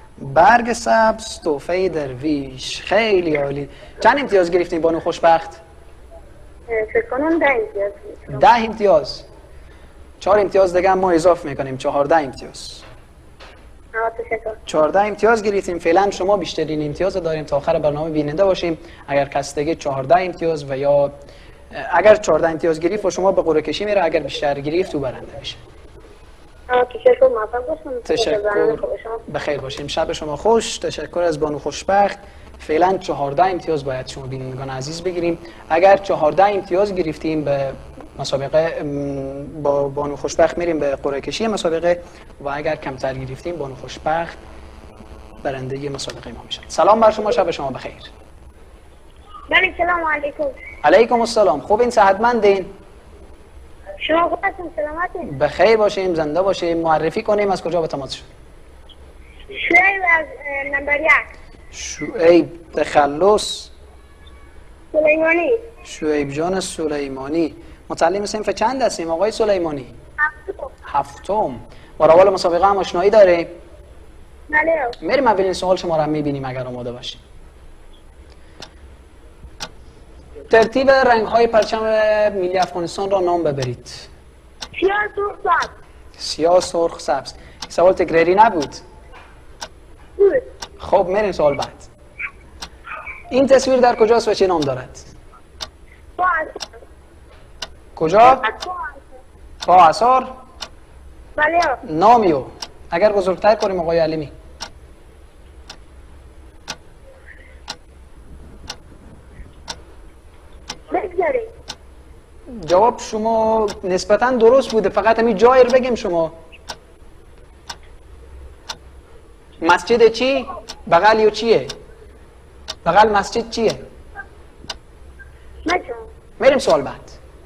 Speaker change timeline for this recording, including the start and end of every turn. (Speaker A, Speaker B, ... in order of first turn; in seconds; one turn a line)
Speaker A: 0.2-5.6
Speaker B: 6.7-8.4
Speaker A: 8.3-9.2
Speaker A: 10.2-12.8
Speaker B: 13.9-14.6
Speaker A: 14.7-21.1
Speaker A: 21.7-25.6
Speaker B: 26.7-29.2
Speaker A: 28.0-44.4
Speaker A: 45.4-48.1
Speaker B: 49.5-50.5
Speaker A: 50.8-52.7
Speaker B: 54.0-55.3
Speaker A: 55.2-58.3
Speaker B: 59.5-61.3
Speaker A: 61.7-63.7
Speaker B: 64.9-65.6
Speaker A: 65.8-69.9
Speaker B: 70.3-70.6
Speaker A: 70.8-73.5
Speaker B: 74.5-75.0
Speaker A: 75.0-77.2
Speaker A: 80.5-84.1
Speaker B: 84.8-85.7
Speaker A: 86.2-88.8
Speaker B: 90.2-90.4
Speaker A: 90.8-91.9
Speaker A: 93.3-95.1
Speaker B: 96.2-96.6
Speaker A: 98.0-98.5
Speaker B: 98.2-99.0
Speaker A: 99.6-100.3
Speaker B: 101.3-101.8
Speaker A: 101.8-104.3
Speaker B: 110.9-111.5
Speaker A: 112.5-116.3
Speaker A: 119.6-121.7
Speaker A: 122.8-123.8
Speaker B: 125.7-126.0
Speaker A: 126.4-127.2